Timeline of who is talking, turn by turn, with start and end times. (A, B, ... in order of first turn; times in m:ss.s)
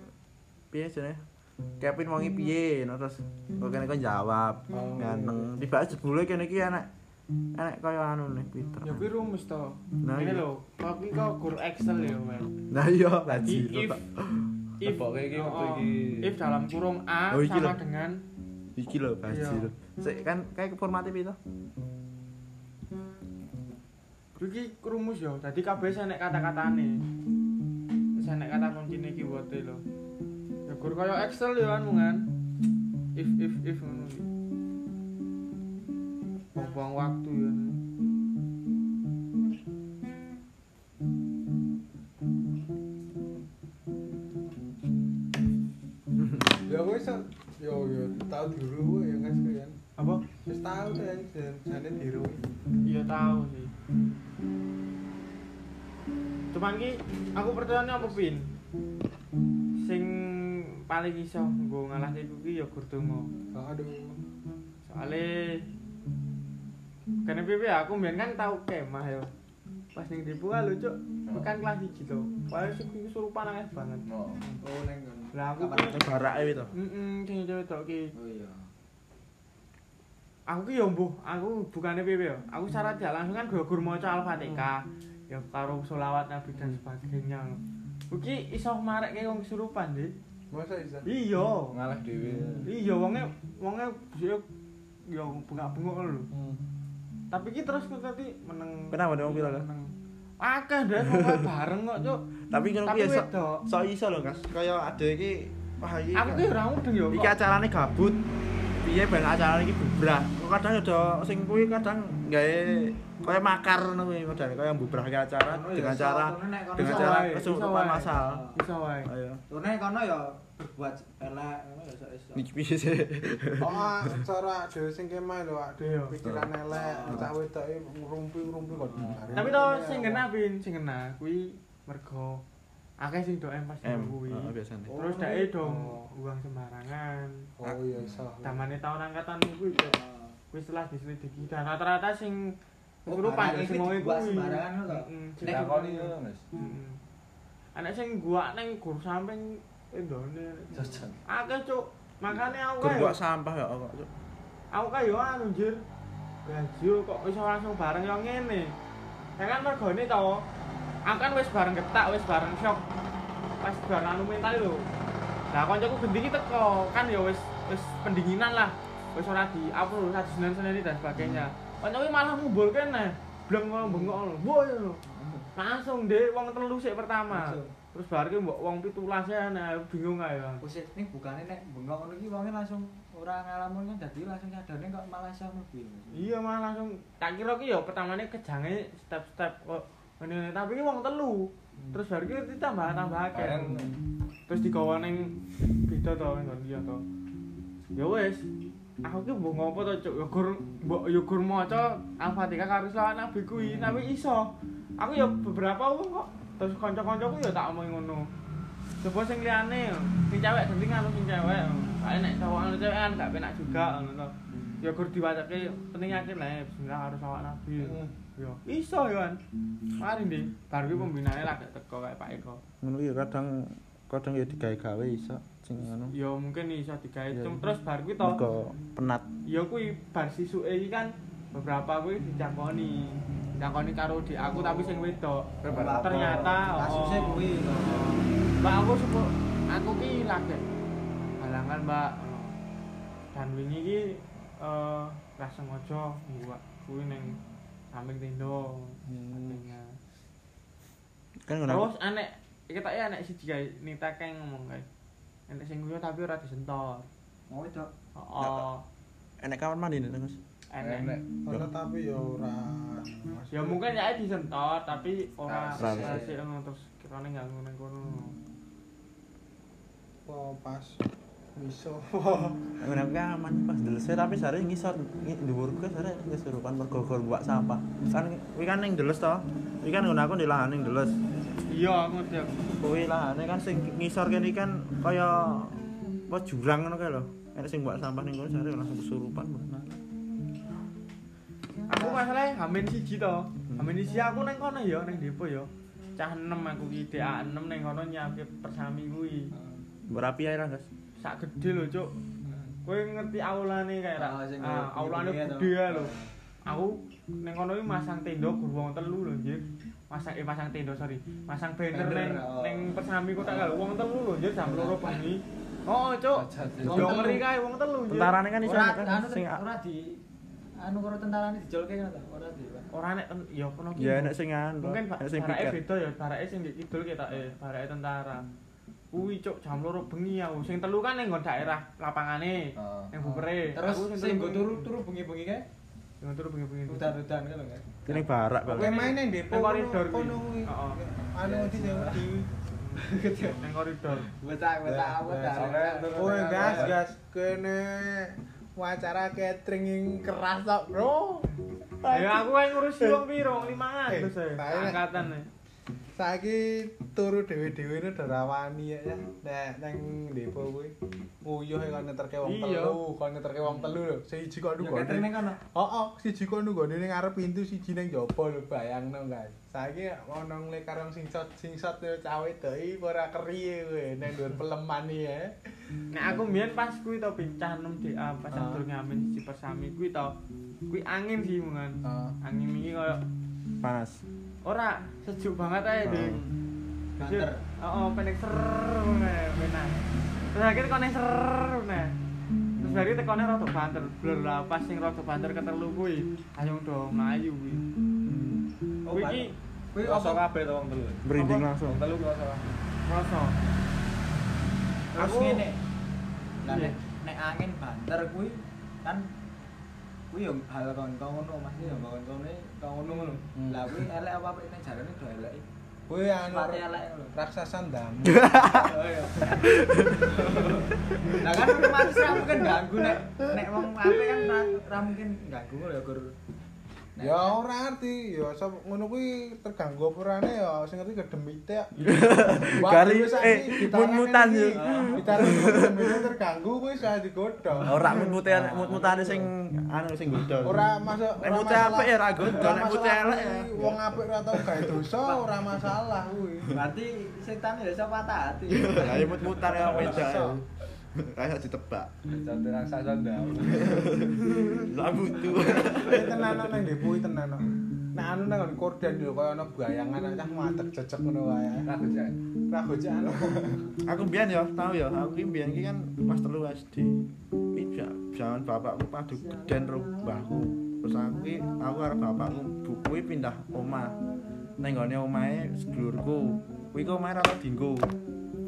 0:00.7-0:01.2 A
0:01.8-0:06.9 A
0:04.7-0:05.6 B
0:07.6-0:09.1 A
0:08.8-0:12.6 C
0:10.0-0:10.4 A
0:12.7-0:14.7 A
0:13.3-0:14.0 C
0:14.8-0:18.2 C
0:14.8-0:16.4 D
0:17.3-0:17.8 A
0:18.8-0:21.4 A
0:19.3-0:19.7 C
0:24.4-0:27.0 C
0:28.2-0:29.8 C
0:30.7-0:32.3 C
0:33.2-0:34.3 C
0:36.5-0:37.8 C
0:46.5-0:49.8 B
0:50.0-0:50.2 C
0:50.5-0:52.4 B
0:52.8-0:53.7 C
0:56.5-0:58.4 C
0:59.8-1:03.3 C
1:03.5-1:04.2 B
1:04.8-1:05.6 C
1:07.2-1:09.3 C
1:10.0-1:14.1 C
1:14.1-1:14.4 D
1:14.6-1:16.7 E
1:15.3-1:16.0 C
1:15.8-1:16.8 A
1:16.7-1:18.1 C
1:18.2-1:18.7 D
1:20.5-1:27.6 C
1:24.4-1:24.7 B
1:28.1-1:30.1 C
1:30.5-1:31.1 B
1:31.0-1:31.7 C
1:31.7-1:32.7 D
1:32.2-1:32.7 B
1:32.7-1:34.4 C
1:35.1-1:36.3 C
1:36.3-1:36.6 B
1:37.3-1:39.9 C
1:38.9-1:39.7 A
1:40.4-1:42.2 C
1:41.1-1:41.4 A
1:42.5-1:46.5 A
1:42.8-1:43.6 C
1:46.1-1:47.4 C
1:47.1-1:48.3 A
1:48.8-1:58.4 A
1:55.5-1:57.4 E
1:56.8-1:59.1 C
1:58.1-1:58.6 E
1:59.1-1:59.4 A
1:59.5-2:02.4 E
2:02.4-2:04.2 A
2:03.6-2:10.2 B
2:05.8-2:06.2 C
2:06.7-2:07.3 E
2:09.0-2:09.4 D
2:09.4-2:12.4 C
2:13.0-2:17.4 C
2:13.8-2:14.9 A
2:14.9-2:16.0 B
2:17.6-2:18.6 B
2:18.4-2:20.0 C
2:19.9-2:20.4 E
2:20.5-2:22.5 C
2:23.1-2:25.1 E
2:23.1-2:27.0 C
2:25.4-2:26.4 D
2:27.8-2:33.2 C
2:30.7-2:31.2 D
2:32.8-2:34.1 A
2:34.7-2:35.8 C
2:36.4-2:38.7 C
2:39.4-2:40.4 C
2:41.1-2:42.8 C
2:43.6-2:44.9 C
2:45.5-2:55.0 C
2:55.1-2:55.5 E
2:55.5-3:00.6 C
2:57.3-2:57.7 E
3:00.6-3:06.3 E
3:06.1-3:13.8 C
3:13.3-3:13.9 D
3:13.7-3:14.0 B
3:14.5-3:17.0 C
3:18.0-3:18.4 C
3:19.0-3:24.5 C
3:25.0-3:28.3 C
3:29.0-3:39.4 C
3:37.8-3:38.1 B
3:40.0-3:42.6 C
3:42.8-3:46.2 A
3:46.1-3:48.4 C
3:47.3-3:47.6 A
3:48.2-3:49.3 A
3:49.5-4:00.7 C
3:55.6-3:56.6 D
3:55.7-3:58.3 E
4:01.2-4:02.6 C
4:03.3-4:07.4 C
4:07.9-4:10.0 C
4:09.1-4:09.6 B
4:11.4-4:11.9 A
4:11.7-4:14.8 C
4:15.5-4:17.1 C
4:17.5-4:17.9 E
4:18.2-4:18.8 C
4:18.4-4:18.7 A
4:19.4-4:20.4 A
4:20.7-4:21.2 C
4:20.8-4:21.3 D
4:21.5-4:23.8 B
4:23.5-4:28.4 C
4:25.5-4:26.2 D
4:25.8-4:26.2 A
4:25.9-4:26.4 E
4:30.3-4:31.0 B
4:31.6-4:32.8 B
4:32.8-4:41.2 A
4:41.7-4:42.7 C
4:42.8-4:50.0 A
4:51.9-4:59.5 C
4:51.9-4:52.2 E
4:53.7-4:54.1 A
4:59.5-4:59.8 E
5:00.1-5:00.9 A
5:01.2-5:02.2 C
5:02.4-5:02.8 E
5:02.8-5:06.1 C
5:04.2-5:06.3 E
5:06.6-5:18.4 C
5:11.9-5:12.9 E
5:14.6-5:15.2 E
5:16.3-5:17.3 D
5:16.9-5:17.4 B
5:18.1-5:19.6 A
5:18.6-5:20.2 E
5:20.8-5:22.9 E
5:22.9-5:28.4 C
5:24.0-5:25.8 A
5:29.1-5:34.9 C
5:32.8-5:33.4 D
5:33.7-5:35.7 E
5:36.2-5:37.2 C
5:36.9-5:38.0 E
5:38.1-5:39.0 A
5:38.7-5:42.6 B
5:38.7-5:41.0 C
5:41.4-5:42.0 D
5:41.9-5:42.1 E
5:42.8-5:44.3 C
5:43.0-5:43.7 E
5:44.2-5:46.9 E
5:44.9-5:51.5 B
5:45.3-5:47.0 D
5:52.0-5:55.5 C
5:52.1-5:53.5 B
5:54.1-5:55.2 B
5:56.2-6:15.7 B
6:02.4-6:03.0 C
6:04.8-6:05.6 E
6:16.1-6:20.3 C
6:18.5-6:18.8 B
6:20.9-6:23.2 C
6:22.1-6:22.3 B
6:23.8-6:24.2 A
6:24.6-6:26.5 C
6:26.0-6:26.5 A
6:27.2-6:27.6 E
6:27.2-6:30.0 C
6:30.5-6:32.2 C
6:32.8-6:37.8 C
6:39.1-6:40.4 E
6:39.1-6:39.5 C
6:40.0-6:41.2 D
6:41.2-6:42.1 A
6:41.3-6:41.7 C
6:41.8-6:42.8 D
6:43.1-6:43.6 C
6:45.1-6:45.8 E
6:45.2-6:45.6 A
6:46.6-6:49.3 E
6:46.7-6:47.0 C
6:50.3-6:55.6 E
6:53.1-6:53.4 C
6:53.6-6:54.1 B
6:56.1-6:59.0 B
6:56.4-6:57.3 E
6:58.3-6:58.9 A
6:58.7-7:06.3 E
6:59.5-7:00.4 A
7:00.9-7:02.2 A
7:07.2-7:07.6 E
7:07.2-7:18.0 B
7:12.0-7:16.3 A
7:14.8-7:15.6 E
7:17.9-7:25.1 A
7:17.9-7:19.1 D
7:20.6-7:26.8 B
7:25.2-7:25.6 E
7:26.7-7:30.3 E
7:28.7-7:32.1 A
7:29.6-7:30.6 B
7:32.3-7:34.2 D
7:33.6-7:36.9 A
7:35.8-7:41.9 B
7:41.9-7:42.4 D
7:42.7-7:43.9 B
7:44.0-7:54.2 A
7:49.6-7:50.0 E
7:54.8-7:58.1 A